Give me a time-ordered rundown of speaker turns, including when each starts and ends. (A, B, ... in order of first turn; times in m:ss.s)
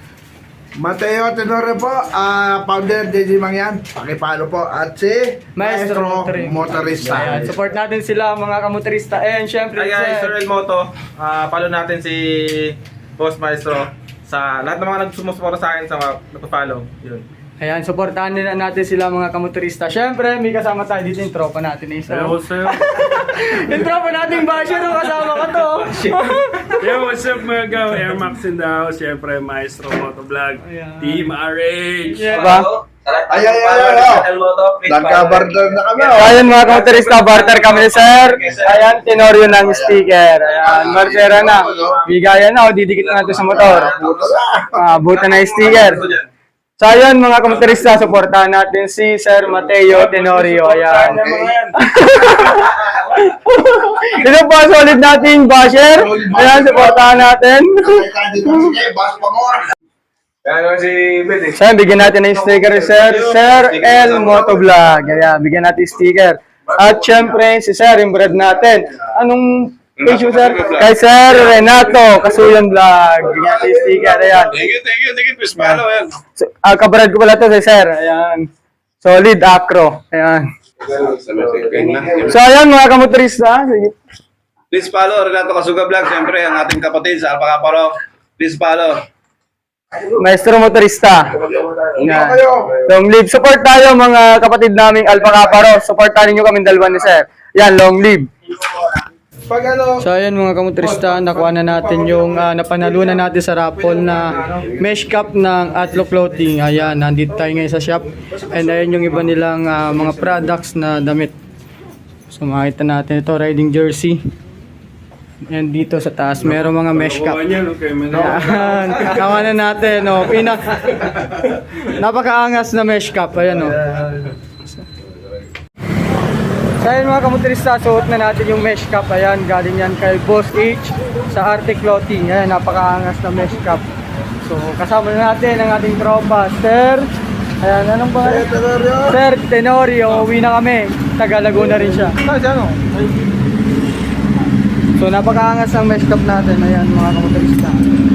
0:00.7-0:07.5 A
0:05.5-0:10.3 B
0:09.8-0:17.2 C
0:17.6-0:26.9 B
0:22.1-0:23.3 D
0:26.7-0:32.5 D
0:30.6-0:31.3 B
0:32.0-0:32.7 B
0:32.2-0:38.7 E
0:33.3-0:34.3 A
0:34.8-0:36.6 A
0:36.1-0:43.9 B
0:40.6-0:42.0 A
0:40.7-0:42.0 C
0:43.2-0:44.2 C
0:43.4-0:44.7 A
0:44.7-0:46.0 B
0:45.1-0:46.2 C
0:46.8-0:58.0 B
0:50.1-0:51.5 D
0:51.1-0:51.6 A
0:51.2-0:51.6 E
0:56.0-0:57.1 A
0:57.8-0:59.7 A
1:00.4-1:01.5 E
1:01.5-1:14.6 B
1:02.8-1:04.5 E
1:10.0-1:10.9 E
1:14.5-1:16.2 E
1:16.4-1:18.5 B
1:19.0-1:20.5 B
1:20.9-1:22.3 E
1:22.2-1:24.0 B
1:24.7-1:29.0 E
1:30.1-1:31.3 B
1:31.6-1:32.7 A
1:32.0-1:38.3 B
1:39.5-1:40.0 A
1:40.0-1:51.3 B
1:40.8-1:43.2 A
1:43.8-1:44.6 A
1:52.3-1:54.2 B
1:55.5-1:57.4 B
1:56.8-1:59.4 D
1:58.1-2:03.8 B
2:03.9-2:04.3 E
2:06.8-2:13.8 B
2:14.4-2:17.1 B
2:17.6-2:18.5 B
2:18.2-2:19.2 A
2:19.1-2:22.2 B
2:22.1-2:22.8 C
2:25.0-2:27.8 B